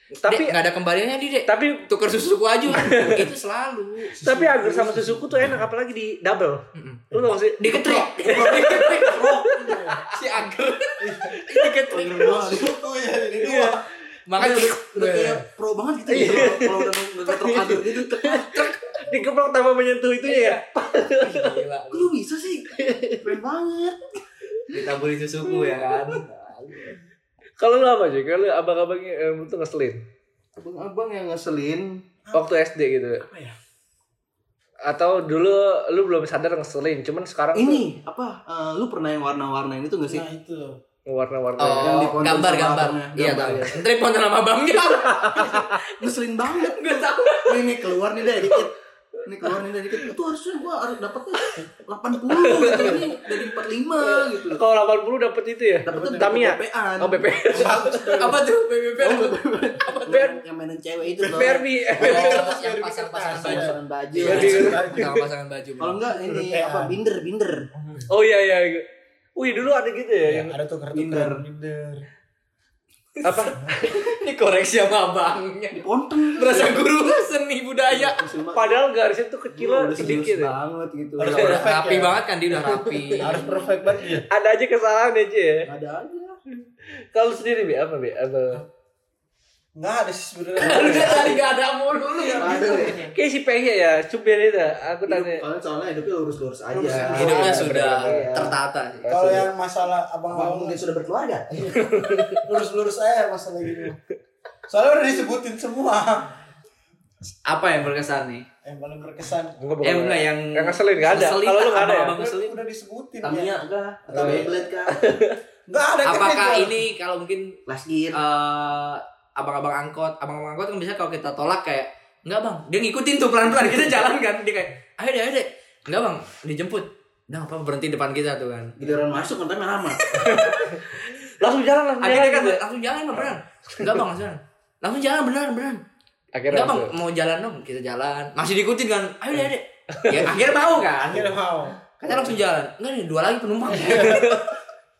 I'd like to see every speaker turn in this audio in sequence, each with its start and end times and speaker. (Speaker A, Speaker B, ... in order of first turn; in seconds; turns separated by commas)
Speaker A: 0.1-4.1, Speaker B: 0.2-0.5, Speaker B: 1.4-1.9, Speaker B: 2.7-3.3, Speaker C: 4.1-5.6, Speaker B: 4.2-10.0, Speaker A: 6.7-9.4, Speaker D: 7.8-9.7, Speaker C: 9.5-10.0, Speaker A: 10.1-12.7, Speaker C: 11.0-11.4, Speaker B: 11.3-11.8, Speaker D: 11.9-12.7, Speaker C: 12.1-13.8, Speaker B: 13.4-13.8, Speaker A: 14.3-15.4, Speaker B: 14.4-14.7, Speaker D: 14.4-18.5, Speaker B: 16.1-16.8, Speaker A: 16.1-19.0, Speaker B: 18.6-21.6, Speaker A: 20.2-22.1, Speaker D: 21.9-24.0, Speaker B: 22.7-23.3, Speaker A: 24.7-27.0, Speaker D: 25.5-26.2, Speaker B: 27.6-30.1, Speaker D: 30.6-32.0, Speaker B: 32.3-33.2, Speaker C: 33.2-33.5, Speaker B: 34.9-37.9, Speaker D: 37.5-40.3, Speaker C: 40.1-40.8, Speaker B: 41.1-42.1, Speaker A: 41.6-45.6, Speaker D: 41.8-43.8, Speaker B: 45.0-45.8, Speaker D: 45.4-48.7, Speaker A: 46.5-48.0, Speaker D: 49.2-54.6, Speaker B: 52.3-53.1, Speaker A: 52.5-52.9, Speaker B: 54.0-58.2, Speaker D: 55.8-57.4, Speaker C: 55.9-56.4, Speaker C: 57.5-58.4, Speaker A: 58.0-60.4, Speaker D: 59.0-62.3, Speaker C: 61.2-65.1, Speaker B: 61.2-62.3, Speaker A: 62.0-66.0, Speaker D: 63.3-64.8, Speaker B: 64.2-65.2, Speaker D: 65.8-67.7, Speaker C: 66.3-67.0, Speaker C: 67.8-68.0, Speaker B: 68.1-68.8, Speaker B: 69.3-70.5, Speaker C: 70.2-72.0, Speaker D: 70.9-71.4, Speaker A: 73.2-78.2, Speaker B: 73.2-73.7, Speaker D: 75.7-76.9, Speaker D: 77.9-78.8, Speaker B: 78.5-80.5, Speaker D: 79.5-81.6, Speaker C: 81.2-82.2, Speaker A: 81.3-83.6, Speaker B: 82.6-83.1, Speaker C: 83.2-84.2, Speaker B: 84.2-85.7, Speaker D: 85.7-86.4, Speaker B: 86.6-88.6, Speaker C: 89.8-91.5, Speaker A: 90.6-93.0, Speaker C: 92.2-93.1, Speaker D: 92.3-93.0, Speaker B: 93.1-95.4, Speaker D: 95.0-98.5, Speaker C: 96.7-98.4, Speaker A: 96.9-99.1, Speaker B: 97.2-98.5, Speaker B: 99.0-99.5, Speaker C: 99.1-100.8, Speaker D: 100.3-101.8, Speaker B: 101.7-102.5, Speaker C: 102.4-104.0, Speaker C: 104.7-106.3, Speaker A: 107.5-108.5, Speaker C: 108.6-109.6, Speaker B: 109.6-112.2, Speaker A: 109.8-112.6, Speaker C: 112.1-113.6, Speaker D: 113.2-115.1, Speaker C: 114.1-114.7, Speaker B: 114.9-115.4, Speaker C: 115.7-116.8, Speaker A: 116.0-117.5, Speaker D: 117.7-118.2, Speaker A: 118.1-128.8, Speaker D: 128.8-130.4, Speaker B: 130.1-132.6, Speaker A: 132.0-135.8, Speaker B: 136.3-136.9, Speaker A: 136.5-141.3, Speaker B: 139.9-140.4, Speaker C: 140.9-142.4, Speaker A: 142.0-144.6, Speaker C: 143.7-144.3, Speaker B: 144.0-144.5